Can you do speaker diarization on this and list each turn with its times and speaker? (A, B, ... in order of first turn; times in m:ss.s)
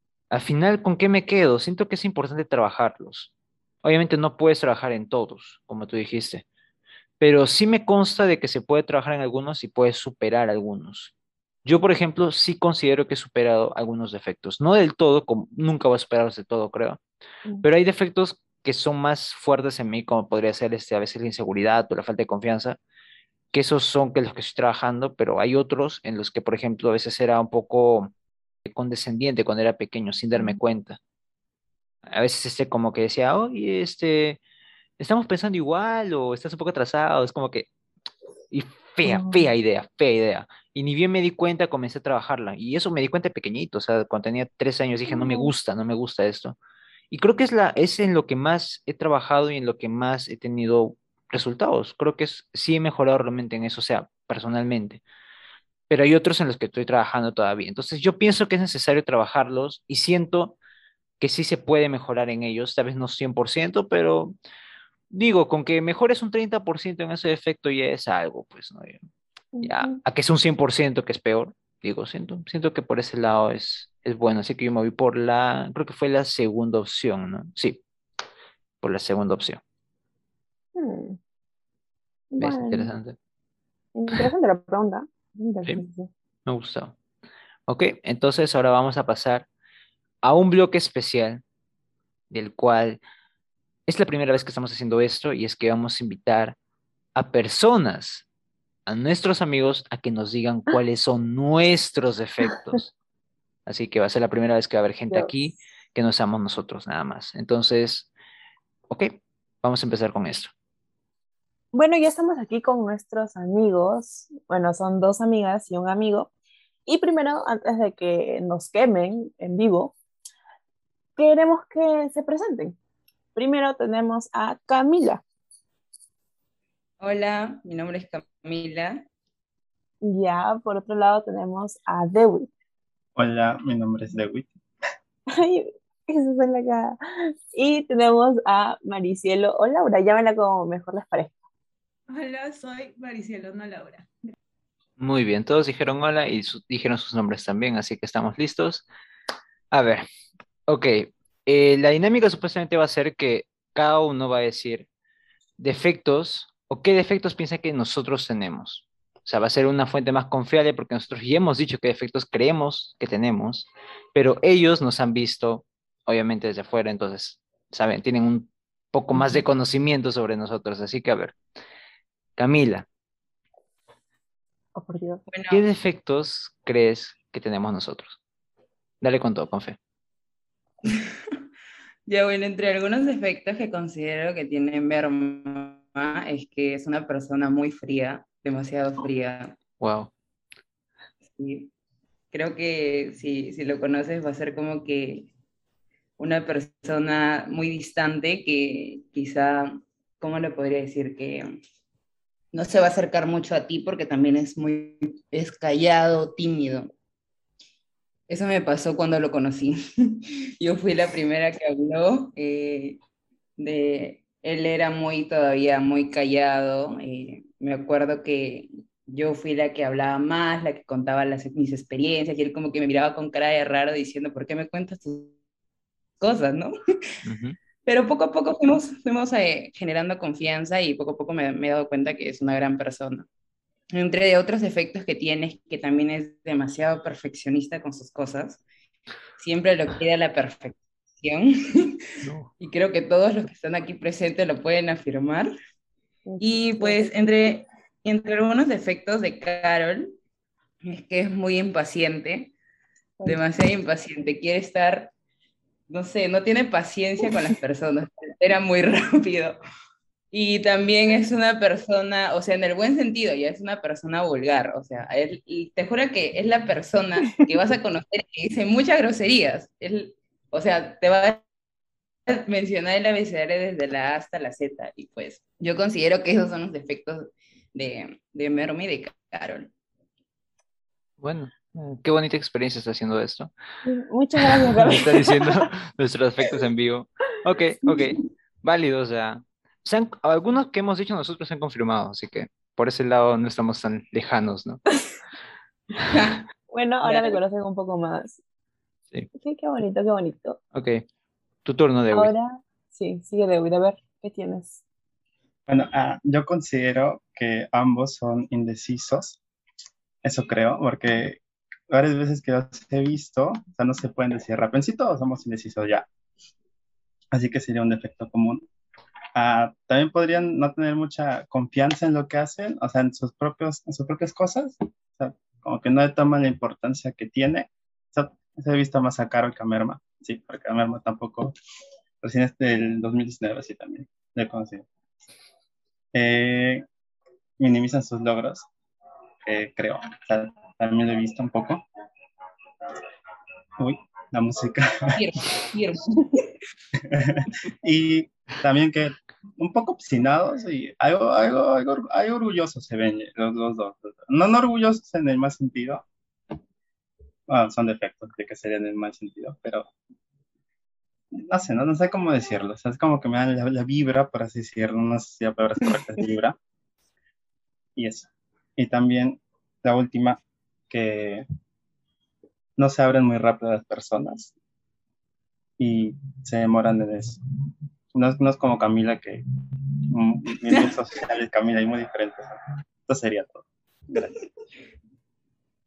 0:00.3-0:03.3 A
0:03.8-0:06.4 A
0:07.2-0:11.1 A
0:11.6-0:17.0 A
0:17.6-0:22.8 A
0:23.5-0:28.1 A
0:28.6-0:31.0 A
0:32.1-0:34.4 A
0:35.0-0:37.7 A
0:38.5-0:46.6 A
0:39.0-0:39.4 B
0:45.1-0:45.5 B
0:47.1-0:55.0 A
0:55.9-1:00.6 A
1:01.2-1:04.3 A
1:05.1-1:09.0 A
1:09.5-1:10.0 B
1:09.6-1:17.8 A
1:18.8-1:19.6 A
1:20.8-1:21.2 B
1:22.3-1:22.9 B
1:22.4-1:23.2 A
1:24.0-1:26.1 B
1:26.5-1:27.0 A
1:27.7-1:29.5 A
1:30.2-1:31.4 A
1:32.3-1:33.0 A
1:33.9-1:36.6 A
1:37.2-1:38.3 A
1:38.9-1:42.9 A
1:43.7-1:48.1 A
1:48.9-1:50.5 A
1:51.7-1:56.3 B
1:56.9-2:00.0 B
2:01.2-2:02.8 B
2:03.4-2:05.2 B
2:07.0-2:09.0 C
2:10.0-2:12.5 B
2:13.2-2:14.5 D
2:15.3-2:21.4 B
2:22.1-2:24.1 E
2:25.0-2:28.9 A
2:29.7-2:30.1 A
2:30.7-2:34.9 A
2:35.6-2:51.4 A
2:49.1-2:49.4 B
2:52.4-2:52.9 A
2:54.8-2:55.2 B
2:55.3-2:55.6 C
2:55.5-2:58.2 A
2:59.0-2:59.8 A
3:00.8-3:01.4 C
3:02.1-3:09.6 C
3:09.8-3:10.1 A
3:11.3-3:11.7 C
3:12.3-3:15.3 C
3:16.2-3:21.6 C
3:22.5-3:26.9 C
3:28.3-3:33.0 C
3:33.6-3:45.4 C
3:46.2-3:46.7 C
3:47.2-3:47.6 A
3:47.8-3:53.3 C
3:53.9-3:58.6 C
3:59.4-4:05.5 C
4:02.2-4:02.5 A
4:06.3-4:07.2 B
4:06.4-4:10.2 C
4:10.8-4:12.5 C
4:13.2-4:15.1 C
4:15.9-4:19.6 C
4:20.3-4:31.4 C
4:32.3-4:39.7 C
4:41.2-4:43.5 A
4:43.8-4:45.7 B
4:44.8-4:54.8 A
4:56.1-4:56.4 C
4:56.7-4:58.4 B
4:57.0-4:57.4 C
4:59.4-5:00.6 B
5:00.7-5:01.0 A
5:01.6-5:02.3 A
5:02.1-5:04.8 B
5:05.7-5:09.4 D
5:10.2-5:11.4 D
5:11.9-5:16.1 D
5:17.3-5:18.6 D
5:19.4-5:31.5 D
5:32.2-5:34.8 D
5:36.1-5:36.8 D
5:37.6-5:38.7 D
5:39.4-5:41.8 D
5:43.8-5:45.6 D
5:45.2-5:46.4 C
5:47.0-5:56.0 D
5:57.5-5:59.9 D
6:01.3-6:06.6 D
6:08.0-6:11.4 D
6:12.8-6:14.5 D
6:15.8-6:17.4 D
6:18.1-6:19.4 D
6:20.1-6:24.4 D